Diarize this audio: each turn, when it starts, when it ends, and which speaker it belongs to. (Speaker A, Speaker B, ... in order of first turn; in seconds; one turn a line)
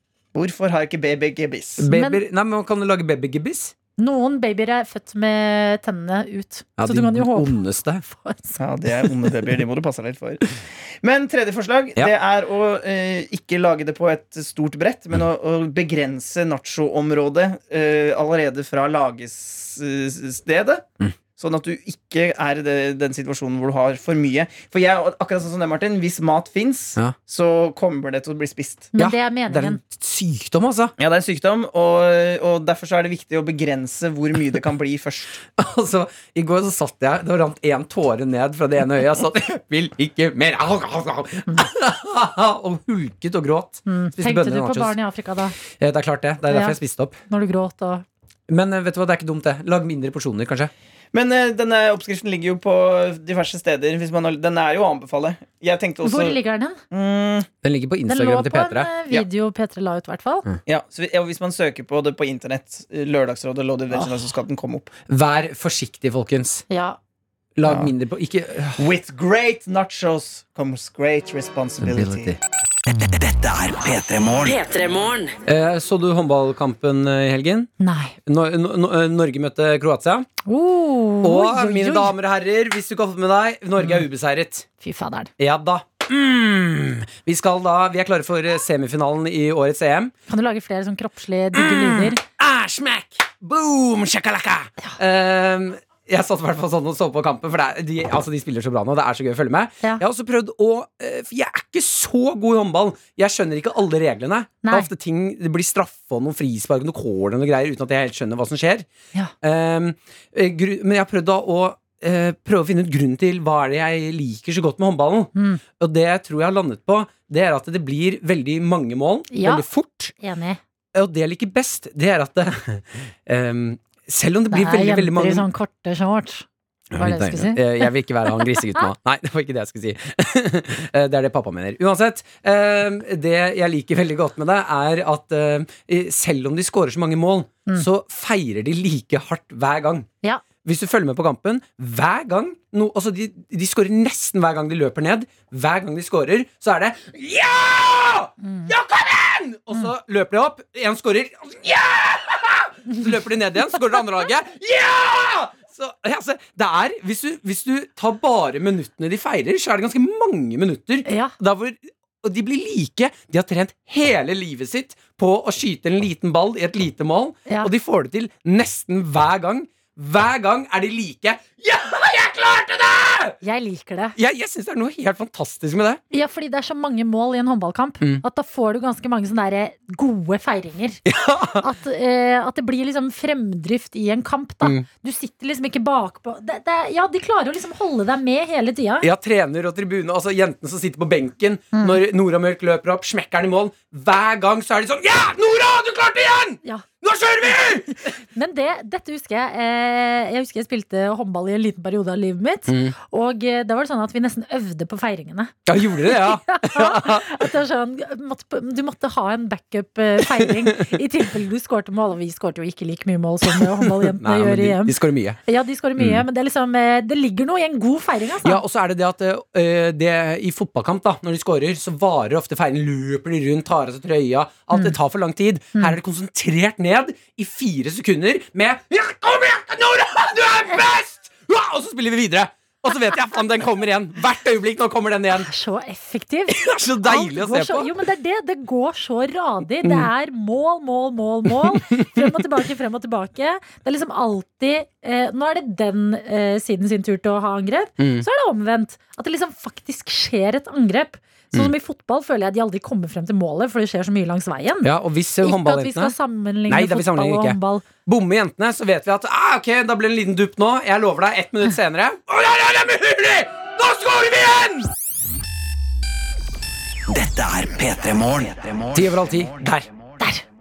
Speaker A: 0.3-1.8
Speaker B: 1.8-3.7
Speaker C: 1.9-2.2
Speaker C: 4.0-8.6
Speaker B: 6.8-8.0
Speaker A: 8.6-20.9
Speaker A: 21.4-28.9
Speaker C: 29.0-29.8
Speaker B: 29.0-30.9
Speaker A: 31.0-35.4
Speaker B: 35.6-45.0
Speaker C: 43.9-45.6
Speaker B: 45.8-47.2
Speaker C: 46.5-46.8
Speaker C: 47.3-48.0
Speaker B: 48.5-50.7
Speaker A: 51.1-56.4
Speaker C: 56.0-56.8
Speaker A: 56.9-57.5
Speaker B: 57.6-58.9
Speaker C: 58.1-60.5
Speaker A: 60.7-64.9
Speaker B: 65.1-66.6
Speaker C: 66.7-67.0
Speaker B: 67.6-68.8
Speaker A: 67.7-67.9
Speaker A: 68.8-72.3
Speaker B: 71.8-72.4
Speaker D: 72.9-75.3
Speaker B: 75.5-77.7
Speaker C: 77.8-78.2
Speaker B: 78.2-80.3
Speaker C: 80.5-82.1
Speaker B: 81.2-84.7
Speaker C: 84.8-85.3
Speaker B: 85.4-90.1
Speaker C: 90.3-92.2
Speaker B: 91.5-108.9
Speaker C: 104.6-104.9
Speaker B: 109.4-120.1
Speaker C: 115.3-115.6
Speaker C: 119.3-119.7
Speaker C: 120.2-120.6
Speaker B: 120.9-125.5
Speaker C: 124.5-127.9
Speaker B: 126.9-140.1
Speaker C: 128.6-128.8
Speaker B: 140.6-173.4
Speaker C: 148.4-148.7
Speaker C: 161.1-161.3
Speaker C: 173.4-174.2
Speaker B: 174.2-176.0
Speaker C: 176.1-181.0
Speaker B: 181.1-181.7
Speaker C: 181.6-189.1
Speaker B: 189.0-198.1
Speaker C: 191.7-192.0
Speaker C: 198.3-218.6
Speaker B: 202.7-202.9
Speaker B: 205.7-207.5
Speaker B: 210.2-210.9
Speaker B: 213.5-215.4
Speaker B: 216.0-216.2
Speaker B: 218.4-235.5
Speaker C: 235.4-257.9
Speaker B: 236.5-237.9
Speaker B: 239.8-240.1
Speaker B: 241.7-242.3
Speaker B: 248.0-248.3
Speaker B: 254.8-256.1
Speaker B: 256.7-264.9
Speaker D: 267.1-269.1
Speaker B: 268.9-269.9